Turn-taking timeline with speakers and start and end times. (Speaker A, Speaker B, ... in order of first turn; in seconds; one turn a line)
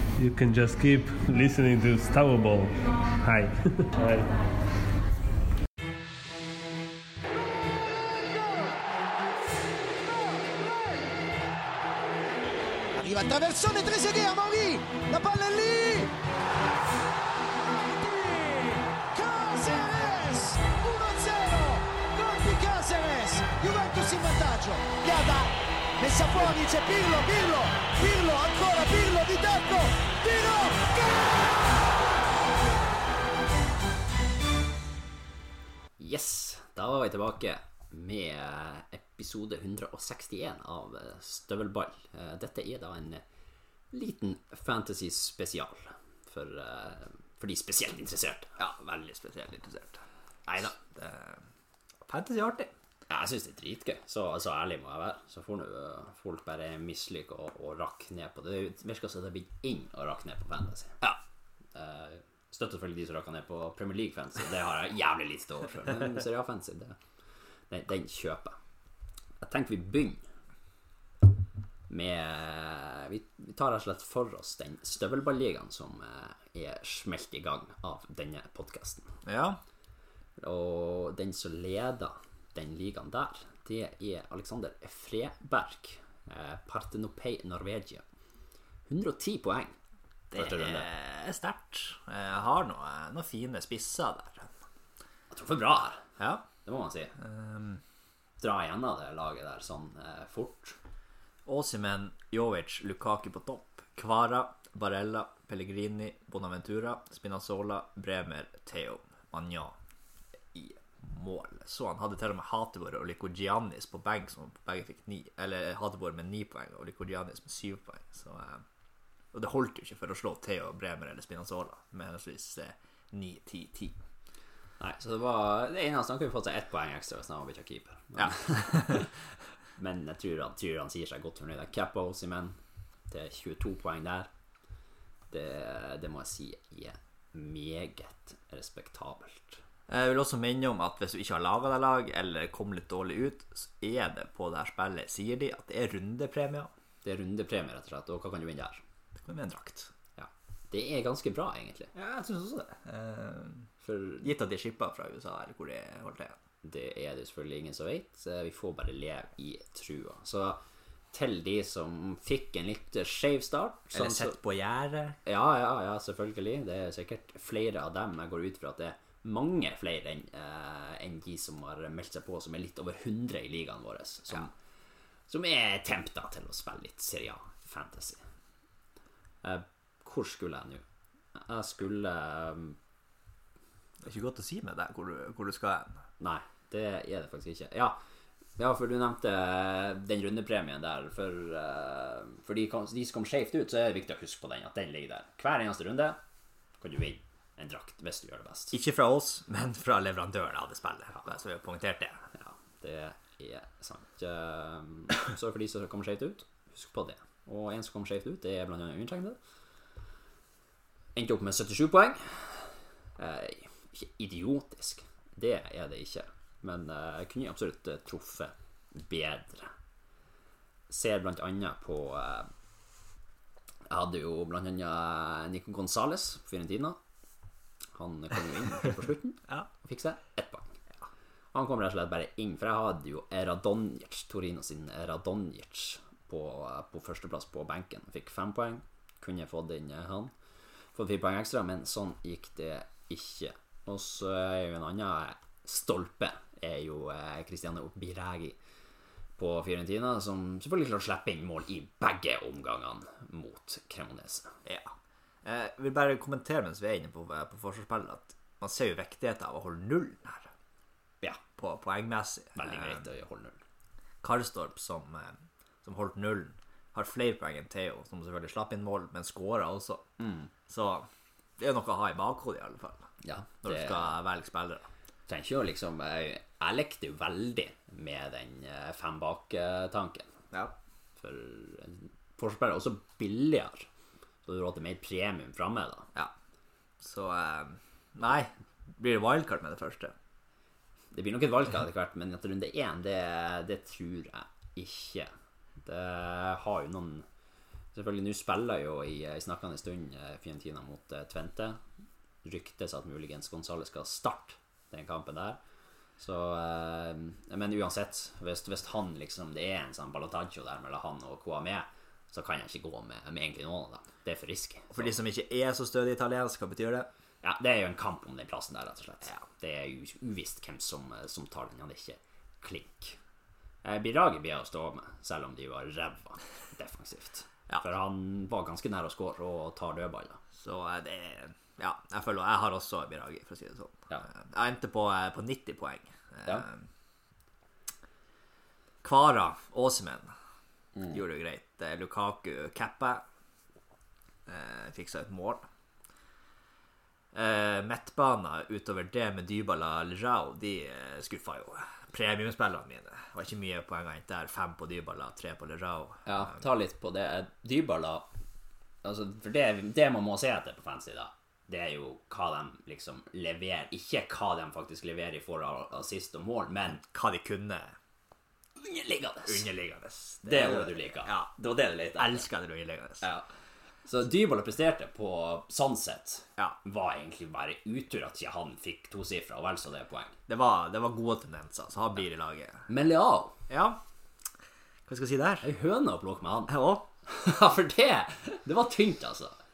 Speaker A: 0.2-4.4
Speaker B: 8.0-8.8
Speaker B: 10.1-11.1
Speaker B: 12.9-16.1
Speaker B: 17.4-31.5
Speaker C: 36.0-43.2
Speaker C: 43.9-48.5
Speaker D: 48.6-51.4
Speaker D: 52.1-52.7
Speaker C: 53.1-61.2
Speaker C: 61.7-67.0
Speaker C: 67.7-68.6
Speaker C: 69.4-70.2
Speaker C: 71.9-79.1
Speaker D: 79.2-79.6
Speaker C: 80.4-88.0
Speaker C: 88.9-89.8
Speaker D: 90.3-94.5
Speaker C: 90.3-90.9
Speaker C: 95.3-97.2
Speaker D: 96.2-96.5
Speaker D: 97.2-97.8
Speaker C: 98.4-100.8
Speaker D: 101.5-109.8
Speaker D: 110.5-118.7
Speaker D: 119.3-124.0
Speaker C: 124.8-129.1
Speaker D: 128.2-129.1
Speaker C: 129.8-132.6
Speaker C: 133.1-134.3
Speaker C: 135.3-139.6
Speaker D: 139.9-146.7
Speaker C: 147.0-148.8
Speaker D: 149.2-149.9
Speaker C: 150.2-151.9
Speaker D: 151.9-153.7
Speaker C: 153.8-154.3
Speaker D: 154.2-156.4
Speaker C: 156.6-160.6
Speaker C: 161.1-164.4
Speaker D: 163.9-165.2
Speaker C: 165.3-174.5
Speaker C: 175.3-178.2
Speaker C: 179.4-180.8
Speaker C: 181.3-182.8
Speaker D: 184.0-185.9
Speaker C: 186.2-188.0
Speaker C: 188.6-196.2
Speaker C: 196.8-198.8
Speaker D: 198.7-202.2
Speaker C: 202.3-209.4
Speaker C: 211.2-219.7
Speaker C: 220.9-222.5
Speaker C: 223.9-227.0
Speaker C: 227.9-230.8
Speaker C: 231.5-240.3
Speaker C: 240.9-248.6
Speaker C: 249.4-254.5
Speaker D: 254.7-254.9
Speaker D: 255.4-260.5
Speaker D: 261.5-263.1
Speaker C: 262.6-263.6
Speaker D: 264.2-270.1
Speaker C: 270.2-270.5
Speaker D: 270.7-271.1
Speaker D: 271.6-273.1
Speaker C: 273.2-274.1
Speaker D: 273.6-274.9
Speaker C: 275.3-280.4
Speaker C: 281.2-283.9
Speaker C: 284.4-286.1
Speaker D: 287.0-290.1
Speaker C: 291.1-295.3
Speaker C: 295.8-297.2
Speaker C: 297.9-301.8
Speaker C: 302.4-305.6
Speaker C: 306.2-315.1
Speaker D: 314.9-317.1
Speaker C: 317.4-323.2
Speaker C: 323.8-330.4
Speaker D: 330.6-336.9
Speaker D: 339.0-340.3
Speaker D: 341.1-343.2
Speaker D: 344.5-345.7
Speaker D: 347.3-356.6
Speaker C: 356.3-358.3
Speaker C: 359.0-367.0
Speaker D: 366.9-368.0
Speaker C: 368.8-369.7
Speaker D: 369.4-373.3
Speaker C: 370.4-372.4
Speaker C: 374.1-380.4
Speaker D: 380.5-382.9
Speaker C: 382.9-383.6
Speaker D: 383.7-384.0
Speaker D: 385.1-385.7
Speaker C: 385.6-389.6
Speaker D: 386.7-387.1